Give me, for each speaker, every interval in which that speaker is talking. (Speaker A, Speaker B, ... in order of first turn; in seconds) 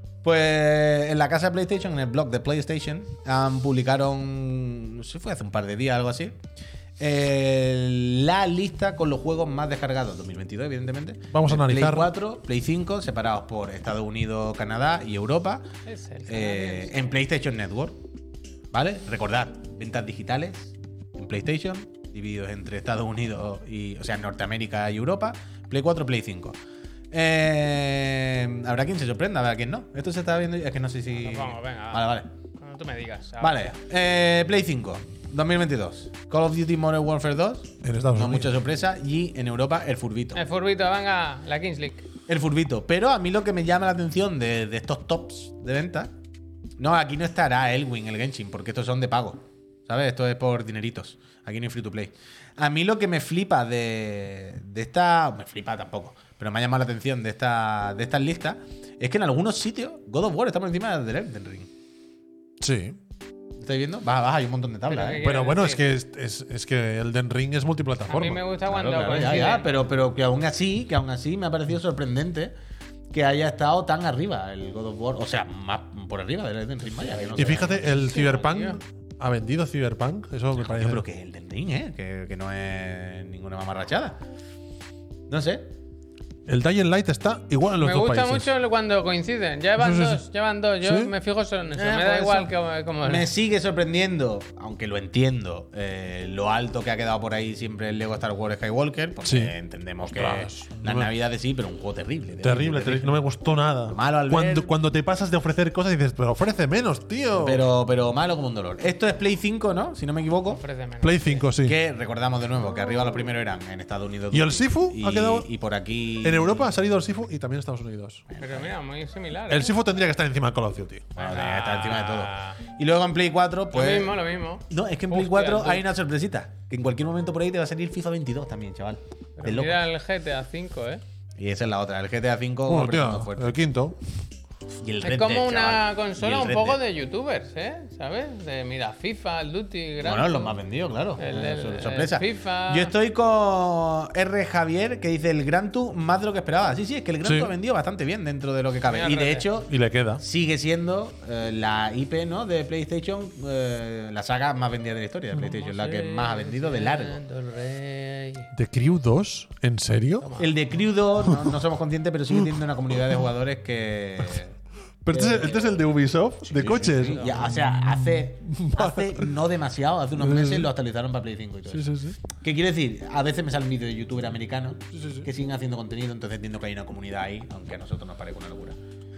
Speaker A: 0.2-6.4, 7.0-15.7, 16.3-18.0, 18.7-26.6, 27.1-32.3, 33.4-40.4, 42.3-46.1, 46.8-61.7, 63.6-65.2, 68.7-72.5, 73.1-78.0, 80.6-84.2, 85.3-85.7, 91.8-103.2, 103.9-104.7, 107.4-110.6, 111.6-116.7, 118.3-118.7, 121.2-124.2, 124.7-129.8, 131.4-133.5, 134.8-136.8, 140.0-157.2, 160.4-164.6, 165.1-165.8, 166.4-178.8
Speaker B: 11.3-12.1, 37.8-38.5, 62.6-63.0, 65.2-68.4, 77.4-81.0, 86.5-88.5, 89.8-90.2, 90.8-91.1, 99.3-99.5, 100.1-101.1, 102.4-107.6, 111.0-111.8, 114.3-115.5, 116.2-118.2, 119.5-121.1, 132.7-134.0, 147.2-147.5, 149.7-150.2, 158.5-160.3, 161.2-161.6, 165.0-169.3, 170.2-170.7, 171.7-172.2, 174.9-175.3
Speaker C: 15.9-17.2, 31.1-33.7, 40.4-42.1, 64.9-65.8, 68.1-69.7, 76.9-78.8, 87.8-93.3, 110.5-111.5, 118.4-119.7, 121.2-122.6, 123.7-125.8, 129.4-131.0, 135.0-140.6, 141.2-142.9, 148.8-149.5, 155.4-158.5, 160.2-160.7